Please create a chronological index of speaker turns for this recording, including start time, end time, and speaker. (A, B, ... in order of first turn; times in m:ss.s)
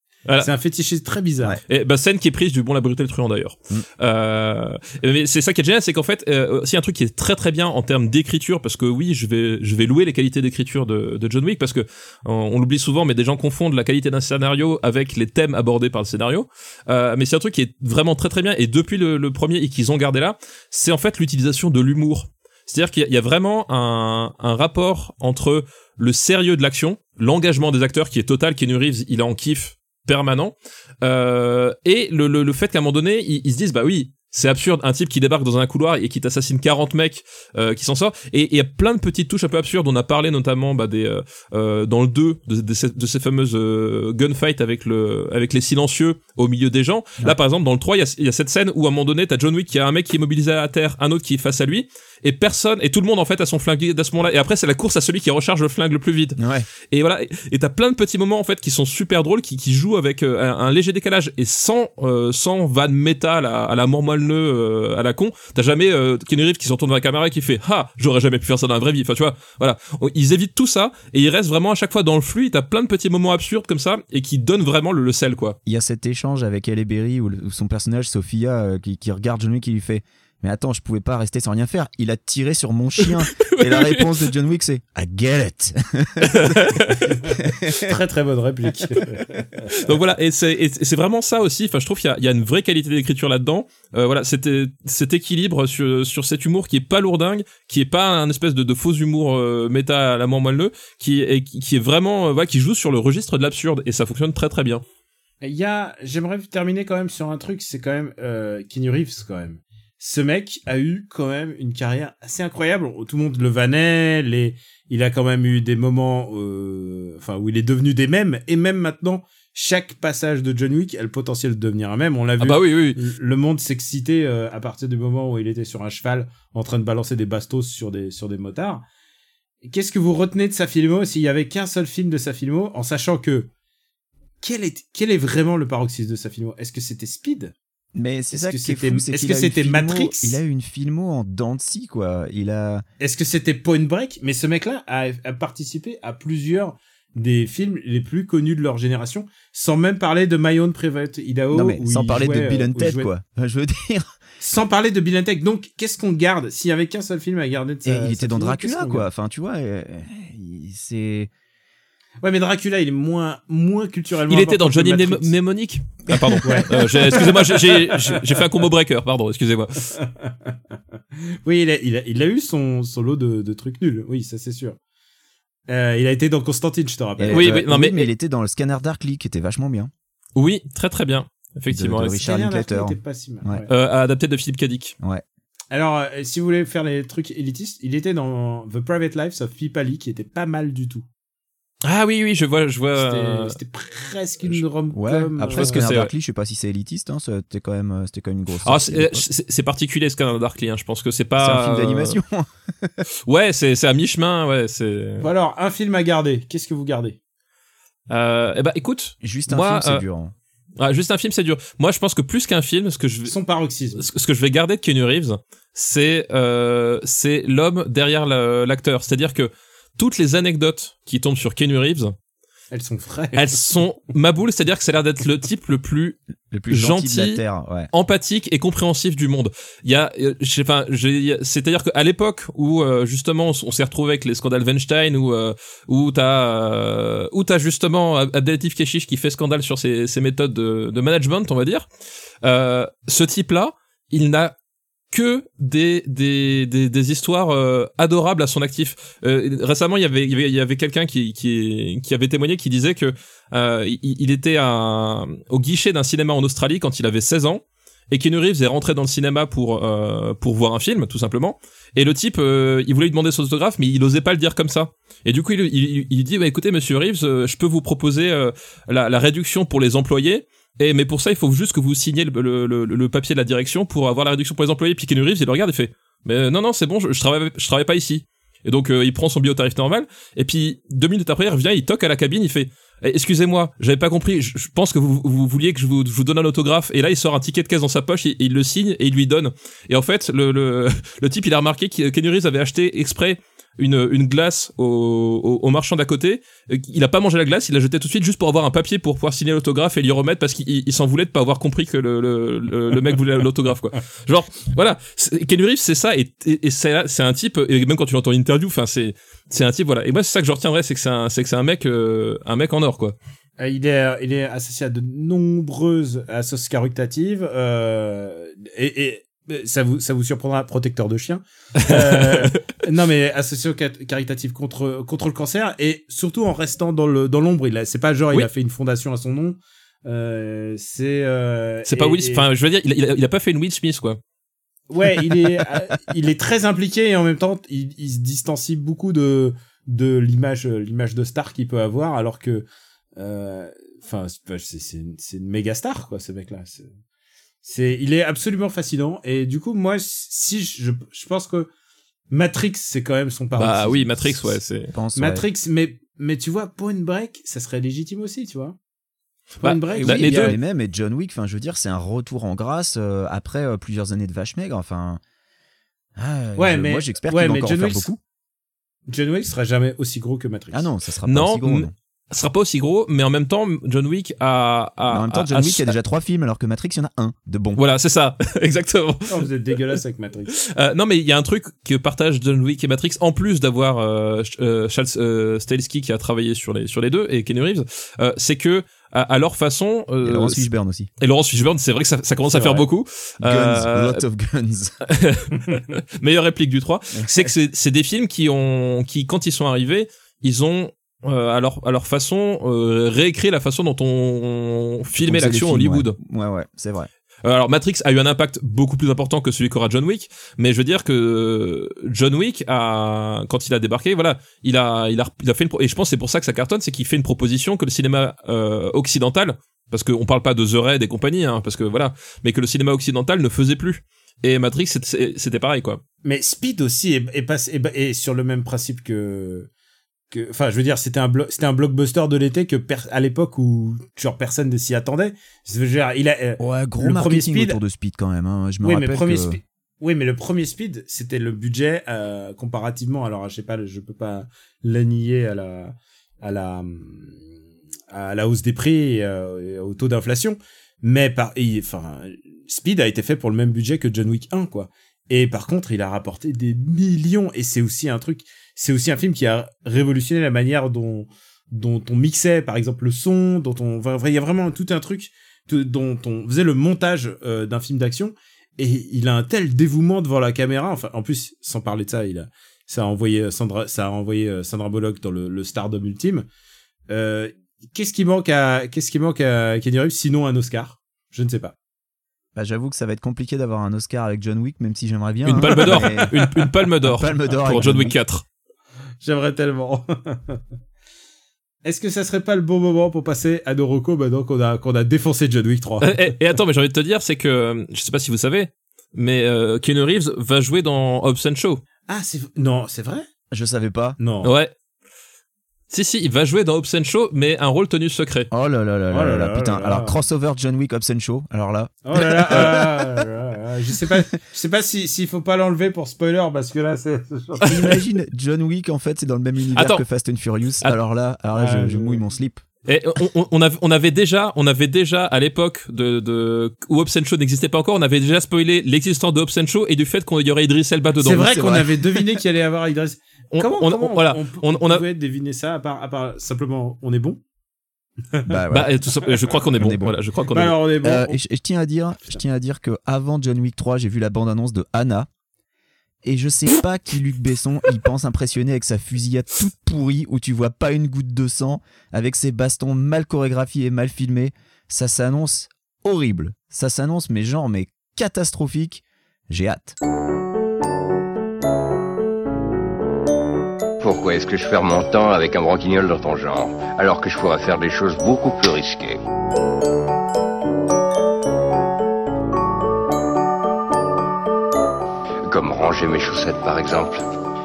0:00.4-0:01.6 A
0:01.7-0:56.4 B
0:56.4-0:56.7 C
0:56.9-1:15.6 B
1:15.7-1:26.8 C
1:23.0-1:24.3 B
1:26.2-1:27.2 B
1:27.4-1:27.9 C
1:27.8-1:29.7 A
1:29.8-1:44.8 B
1:45.4-2:08.8 A
2:02.4-2:03.0 B
2:09.6-2:13.5 A
2:14.4-2:17.5 A
2:18.0-2:22.8 C
2:18.3-2:20.4 A
2:23.0-2:33.1 A
2:31.5-2:34.2 C
2:34.4-2:39.1 A
2:37.8-2:41.3 C
2:42.2-2:45.3 A
2:44.3-2:49.9 B
2:46.4-2:48.2 A
2:50.0-2:50.5 A
2:51.4-2:54.8 A
2:55.7-2:57.5 A
2:57.2-2:59.9 C
2:57.3-2:58.1 B
3:00.4-3:02.2 B
3:01.7-3:03.6 C
3:02.2-3:03.7 A
3:03.7-3:05.0 B
3:05.7-3:11.1 A
3:11.8-3:13.6 B
3:13.0-3:15.8 A
3:14.9-3:19.2 C
3:15.5-3:16.1 B
3:18.6-3:22.2 B
3:21.4-3:23.0 C
3:23.3-3:25.3 B
3:25.2-3:27.2 A
3:28.1-3:30.0 B
3:29.2-3:30.3 C
3:30.8-3:33.3 B
3:33.3-3:34.0 A
3:34.0-3:42.1 B
3:42.7-3:43.6 A
3:43.4-3:46.2 B
3:46.5-3:47.9 C
3:46.7-3:47.4 B
3:47.9-4:01.9 B
4:02.4-4:04.5 B
4:05.1-5:13.2 B
5:13.6-5:32.5 A
5:21.8-5:22.5 B
5:31.9-5:34.2 B
5:34.9-5:42.7 A
5:43.2-5:46.9 A
5:47.6-5:51.7 A
5:52.3-5:54.6 A
5:53.6-5:54.9 B
5:54.9-5:55.4 C
5:55.2-5:58.8 A
5:59.6-6:00.6 A
5:59.6-6:00.6 B
5:59.9-6:05.2 C
6:06.2-6:08.2 C
6:06.6-6:08.1 A
6:09.1-6:10.9 A
6:10.7-6:11.9 C
6:11.3-6:15.9 B
6:15.1-6:17.8 C
6:17.8-6:19.5 B
6:19.3-6:20.5 A
6:20.6-6:30.6 B
6:30.2-6:31.1 C
6:31.2-6:34.2 B
6:32.5-6:32.8 A
6:33.4-6:35.0 C
6:35.1-6:46.2 B
6:37.1-6:37.5 C
6:45.2-6:47.1 C
6:47.4-7:06.0 B
7:06.2-7:09.7 A
7:10.3-7:17.8 A
7:16.6-7:19.6 C
7:18.8-7:27.4 A
7:28.1-7:56.5 A
7:57.1-8:01.8 A
8:02.6-8:06.4 C
8:05.5-8:08.4 B
8:05.8-8:06.1 A
8:07.0-8:08.2 C
8:09.2-8:10.6 A
8:11.8-8:16.2 A
8:16.0-8:21.8 B
8:22.1-8:23.3 A
8:23.5-8:24.2 C
8:24.2-8:24.5 A
8:24.4-8:24.7 B
8:25.9-8:28.5 B
8:28.5-8:32.8 C
8:29.1-8:30.2 A
8:32.1-8:37.8 A
8:32.2-8:32.8 B
8:37.6-8:42.6 C
8:39.7-8:40.0 B
8:41.5-8:42.2 A
8:42.9-8:51.8 B
8:51.2-8:57.4 A
8:51.4-8:51.9 C
8:53.5-8:55.0 B
8:58.5-8:58.9 C
8:58.7-9:00.8 B
8:59.7-9:00.2 C
9:00.5-9:01.4 A
9:01.0-9:05.3 C
9:06.2-9:20.0 C
9:24.0-9:29.2 D
9:35.5-9:37.2 D